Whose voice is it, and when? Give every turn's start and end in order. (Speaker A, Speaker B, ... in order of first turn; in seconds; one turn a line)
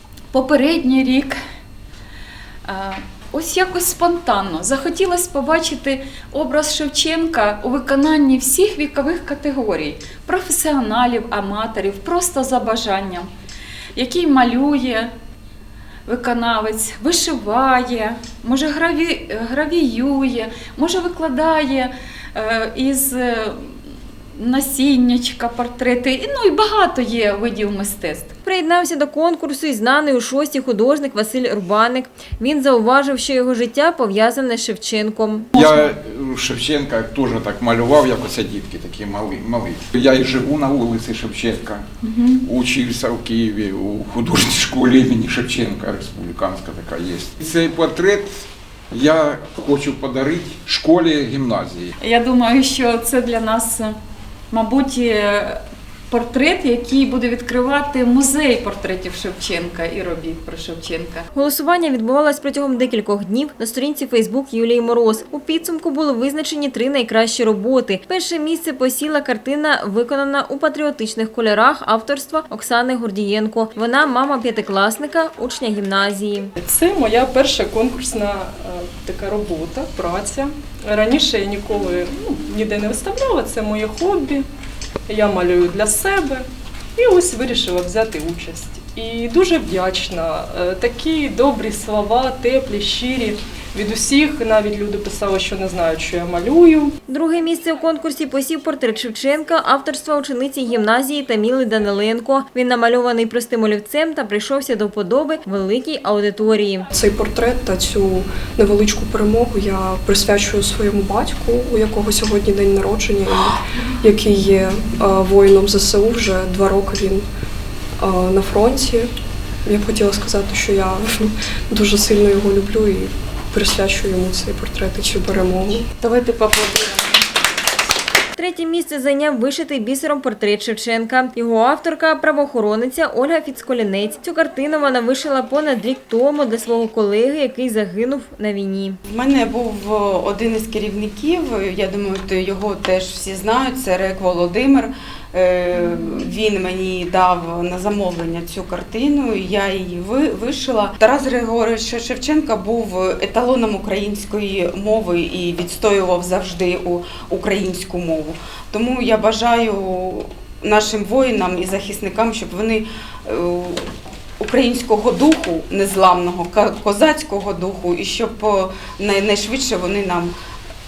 Speaker A: 0.3-1.4
Speaker A: 2.7-13.3
Speaker A: 13.9-15.1
Speaker A: 16.1-23.7
Speaker A: 24.4-28.3
Speaker B: 28.5-35.5
Speaker C: 35.5-41.9
Speaker A: 42.1-42.4
Speaker C: 42.4-48.3
Speaker C: 48.9-51.9
Speaker A: 52.0-54.0
Speaker A: 54.5-61.3
Speaker B: 61.3-76.5
Speaker D: 76.6-84.5
Speaker D: 85.1-97.0
Speaker B: 97.1-106.9
Speaker E: 106.9-117.2
Speaker E: 118.0-119.1
Speaker E: 119.7-125.9
Speaker A: 126.0-127.2
Speaker B: 128.4-139.0
Speaker F: 139.1-163.8
Speaker F: 164.4-170.3